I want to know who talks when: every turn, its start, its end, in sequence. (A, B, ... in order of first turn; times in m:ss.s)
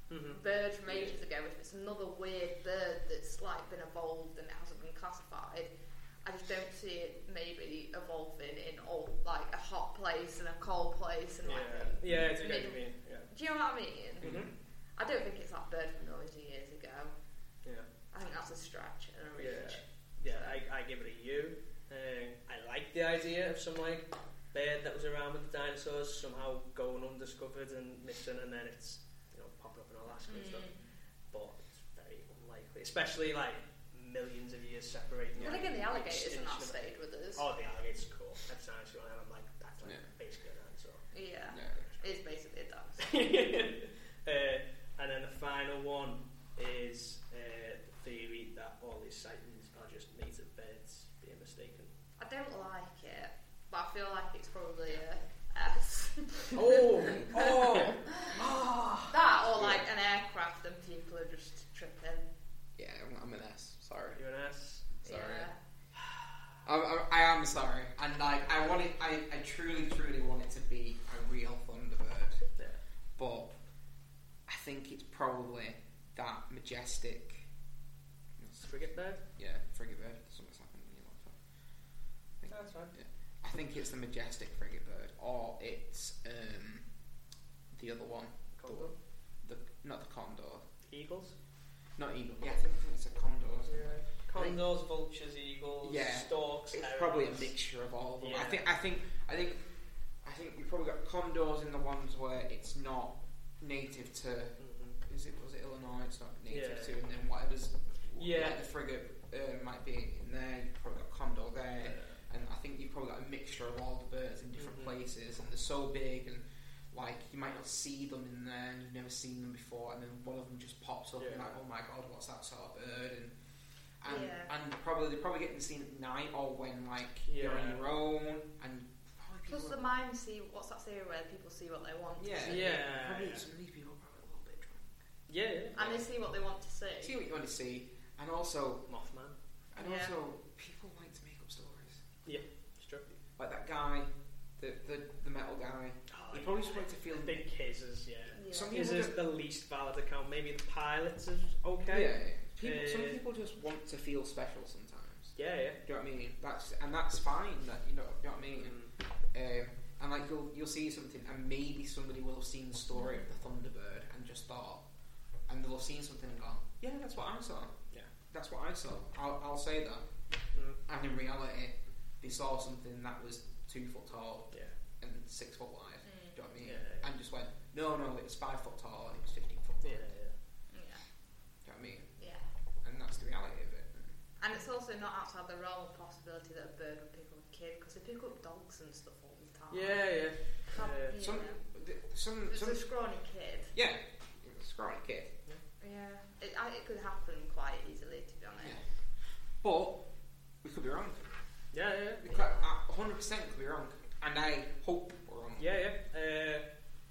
0:00.1-0:00.4 A
0:00.3-0:05.7 B
0:00.9-0:01.2 C
0:06.2-0:14.4 B
0:11.4-0:13.3 A
0:14.2-0:14.5 C
0:14.2-0:14.5 A
0:15.0-0:17.1 B
0:18.1-0:20.6 B
0:19.4-0:30.7 A
0:30.3-0:30.8 B
0:31.3-0:41.0 A
0:35.4-0:37.4 B
0:35.4-0:35.6 C
0:41.1-0:43.2 B
0:41.5-0:41.8 C
0:43.0-0:51.9 A
0:52.2-0:58.4 B
0:56.5-0:59.2 A
0:59.1-1:02.2 B
0:59.5-0:59.8 C
1:02.8-1:04.2 C
1:04.1-1:04.9 A
1:05.0-1:05.5 C
1:05.0-1:05.6 B
1:06.6-1:12.4 C
1:13.2-1:13.5 C
1:14.5-1:17.5 C
1:18.4-1:21.4 C
1:18.6-1:19.2 A
1:22.4-1:26.9 C
1:22.5-1:22.9 A
1:27.7-1:28.9 C
1:28.6-1:29.0 A
1:29.4-1:30.6 C
1:30.9-1:31.4 A
1:32.0-1:34.6 C
1:33.7-1:37.5 A
1:35.8-1:39.6 C
1:38.2-1:38.7 A
1:40.2-2:03.4 C
1:44.6-1:45.0 A
1:46.5-1:47.0 A
1:48.2-1:48.6 A
1:51.8-1:52.2 A
1:54.6-1:55.0 A
2:01.2-2:01.6 A
2:04.0-2:09.9 C
2:04.0-2:04.5 B
2:07.3-2:07.8 A
2:09.5-2:12.6 B
2:12.2-2:14.8 C
2:12.5-2:13.4 A
2:15.3-2:15.8 A
2:15.7-2:17.2 B
2:15.8-2:16.1 C
2:17.0-2:18.9 C
2:18.9-2:19.4 A
2:19.7-2:22.0 C
2:19.8-2:20.2 B
2:22.3-2:23.2 A
2:23.4-2:27.4 C
2:26.1-2:33.2 A
2:28.3-2:28.8 B
2:28.5-2:29.2 C
2:31.9-2:38.8 C
2:35.4-2:35.8 A
2:38.5-2:38.9 A
2:39.3-2:44.8 C
2:43.0-2:43.2 B
2:45.5-2:47.7 C
2:48.3-2:50.0 C
2:50.5-2:50.8 A
2:50.9-3:00.1 C
2:56.0-2:56.5 B
2:56.6-2:57.1 A
2:59.8-3:00.4 A
3:00.7-3:01.0 B
3:01.6-3:02.1 C
3:02.2-3:02.4 B
3:02.8-3:04.2 C
3:04.4-3:10.1 B
3:09.7-3:11.2 A
3:10.7-3:11.6 B
3:11.2-3:12.8 C
3:12.5-3:13.7 B
3:13.7-3:15.4 C
3:15.8-3:18.8 B
3:19.6-3:20.1 C
3:20.6-3:21.2 C
3:21.7-3:22.3 A
3:22.2-3:25.7 C
3:22.3-3:22.7 B
3:25.6-3:26.6 A